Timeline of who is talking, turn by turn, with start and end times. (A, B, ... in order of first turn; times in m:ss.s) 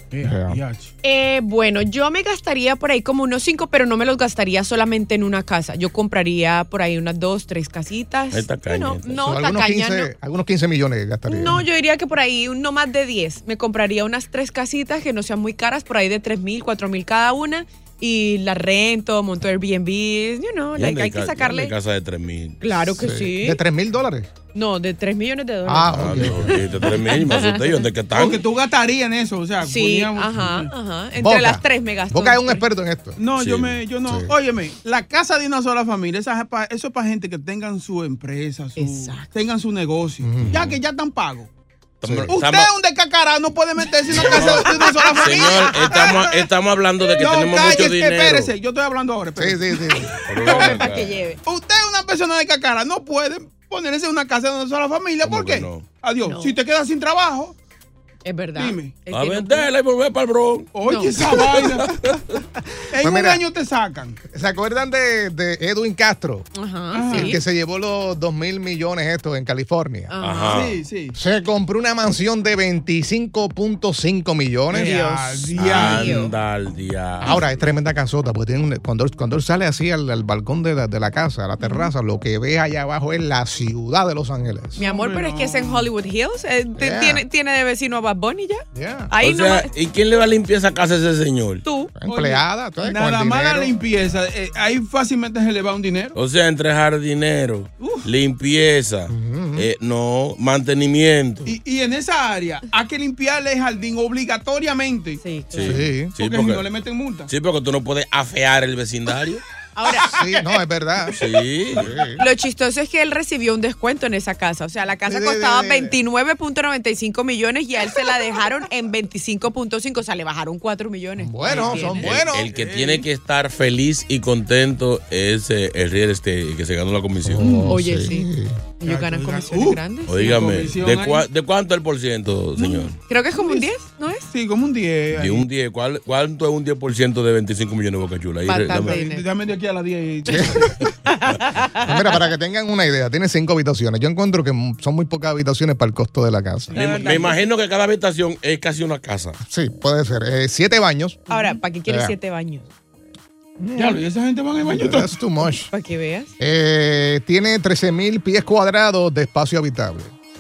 0:00.1-0:00.9 A
0:00.2-0:00.6 B
0:01.0-0:10.1 C
0:08.3-0:09.2 D
0:09.2-0:11.6 B
0:11.3-0:21.7 C
0:20.8-0:22.6 D
0:22.6-0:23.6 C
0:22.8-0:24.3 B
0:24.5-0:27.8 C
0:25.7-0:26.9 B
0:25.9-0:28.4 D
0:28.1-0:30.7 A
0:29.6-0:32.6 C
0:31.2-0:33.2 B
0:33.2-0:41.5 A
0:33.4-0:33.8 D
0:34.0-0:34.3 B
0:38.8-0:39.3 C
0:40.2-0:40.8 B
0:40.4-0:40.7 D
0:42.0-0:42.7 D
0:42.0-0:42.4 B
0:42.3-0:46.5 A
0:44.1-0:48.5 D
0:44.7-0:46.0 C
0:47.1-0:50.9 A
0:49.4-0:50.3 B
0:50.3-0:51.2 D
0:50.4-0:51.4 C
0:51.5-0:57.6 A
0:55.2-0:55.8 D
0:56.2-0:56.6 C
0:58.2-0:59.7 C
0:58.6-0:59.0 A
0:59.1-1:00.7 D
1:00.7-1:02.2 A
1:00.8-1:01.2 C
1:01.2-1:02.4 D
1:02.9-1:04.2 A
1:03.0-1:03.4 B
1:04.3-1:06.5 B
1:06.6-1:07.4 C
1:06.9-1:07.4 A
1:07.1-1:10.1 B
1:10.1-1:10.6 C
1:10.2-1:10.8 D
1:10.5-1:11.2 A
1:11.2-1:15.0 B
1:14.7-1:16.2 A
1:14.7-1:16.3 C
1:15.6-1:17.4 D
1:17.2-1:24.8 B
1:21.6-1:21.9 C
1:24.8-1:29.7 C
1:24.8-1:25.9 A
1:26.8-1:27.2 B
1:28.8-1:29.1 B
1:29.2-1:31.6 D
1:31.6-1:31.9 C
1:32.0-1:33.7 B
1:32.0-1:36.2 A
1:36.2-1:41.6 D
1:37.8-1:38.1 A
1:39.1-1:39.7 B
1:41.4-1:45.2 A
1:45.2-1:45.8 C
1:45.5-1:46.7 D
1:45.6-1:46.1 B
1:46.2-1:47.3 A
1:47.3-1:49.4 D
1:49.8-1:50.2 C
1:50.0-1:51.2 B
1:51.2-1:52.0 D
1:51.7-1:52.2 B
1:52.2-2:02.1 C
1:55.1-1:56.0 B
2:01.2-2:02.5 B
2:01.4-2:03.1 A
2:01.9-2:07.5 D
2:07.2-2:08.7 B
2:07.4-2:07.8 A
2:07.7-2:08.3 C
2:08.8-2:10.4 C
2:08.8-2:11.2 A
2:10.1-2:13.0 D
2:12.6-2:13.7 A
2:13.0-2:14.3 C
2:14.3-2:15.5 A
2:15.2-2:19.0 D
2:18.5-2:19.2 C
2:18.7-2:20.9 A
2:20.3-2:20.8 B
2:21.3-2:21.6 C
2:21.7-2:26.8 B
2:26.7-2:27.4 A
2:26.7-2:29.4 D
2:26.8-2:27.3 C
2:29.4-2:31.2 B
2:31.3-2:32.6 C
2:31.9-2:32.2 B
2:33.6-2:34.0 B
2:33.8-2:35.2 A
2:34.6-2:35.7 B
2:35.7-2:36.3 C
2:36.4-2:40.2 B